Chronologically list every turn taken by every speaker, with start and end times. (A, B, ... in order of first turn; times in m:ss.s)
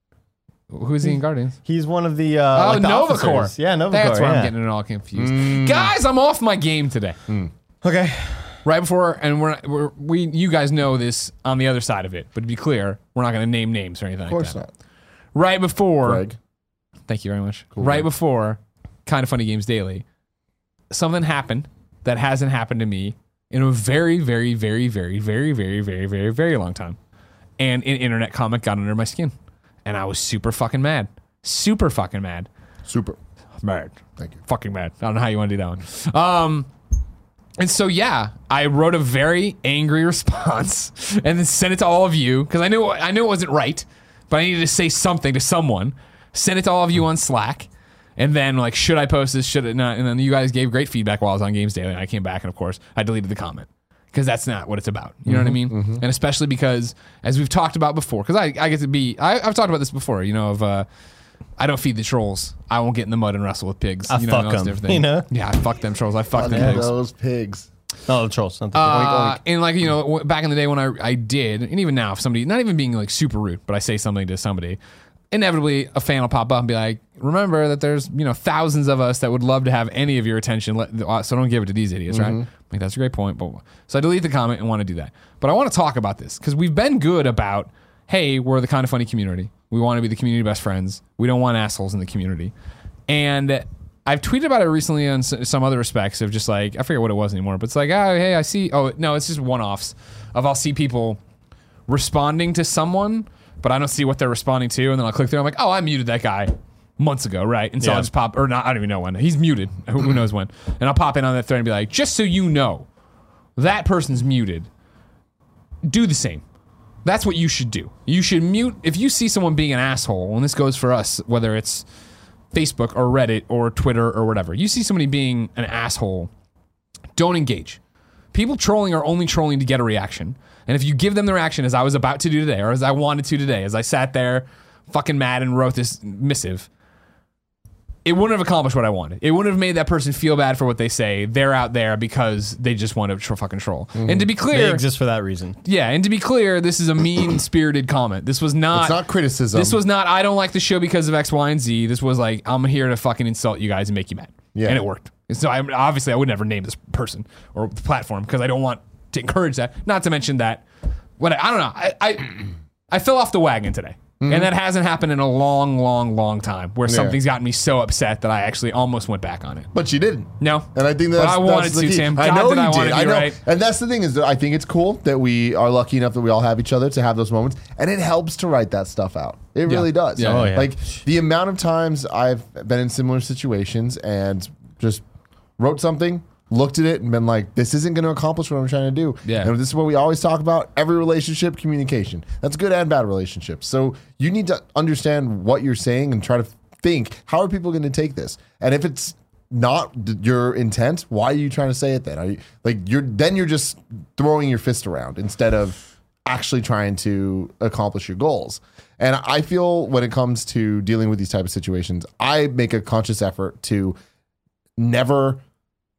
0:00.7-0:01.6 A
0:01.6-0:04.5 B
0:02.5-0:07.2 A
0:05.2-0:05.9 C
0:07.8-0:08.6 B
0:08.6-0:14.6 A
0:14.3-0:14.7 C
0:15.3-0:16.2 A
0:16.0-0:16.4 C
0:17.1-0:20.0 A
0:17.7-0:18.1 C
0:20.9-0:27.0 A
0:27.6-0:29.3 A
0:29.8-0:32.5 A
0:32.8-0:33.2 C
0:33.6-0:36.7 A
0:37.6-1:00.8 A
0:55.2-0:56.0 C
1:01.6-1:06.9 A
1:04.1-1:05.3 B
1:06.3-1:07.7 C
1:06.4-1:06.8 B
1:08.1-1:09.4 B
1:08.7-1:14.8 A
1:15.3-1:32.5 A
1:22.1-1:22.4 C
1:33.1-1:41.2 A
1:41.9-1:52.9 A
1:47.8-1:48.1 B
1:53.6-1:54.7 A
1:55.8-1:56.4 A
1:57.0-2:01.8 A
2:02.5-2:06.3 A
2:07.2-2:07.8 A
2:08.3-2:16.7 A
2:18.0-2:24.8 A
2:23.9-2:24.3 C
2:24.3-2:25.6 B
2:25.6-2:29.0 A
2:28.7-2:29.8 C
2:29.5-2:40.6 A
2:34.5-2:34.8 C
2:41.2-2:49.7 A
2:44.2-2:44.5 C
2:46.9-2:47.2 C
2:49.7-3:05.0 C
2:50.4-2:53.4 A
2:59.7-3:00.6 A
3:00.2-3:00.8 B
3:05.6-3:34.0 C
3:09.2-3:09.5 A
3:34.8-3:35.4 C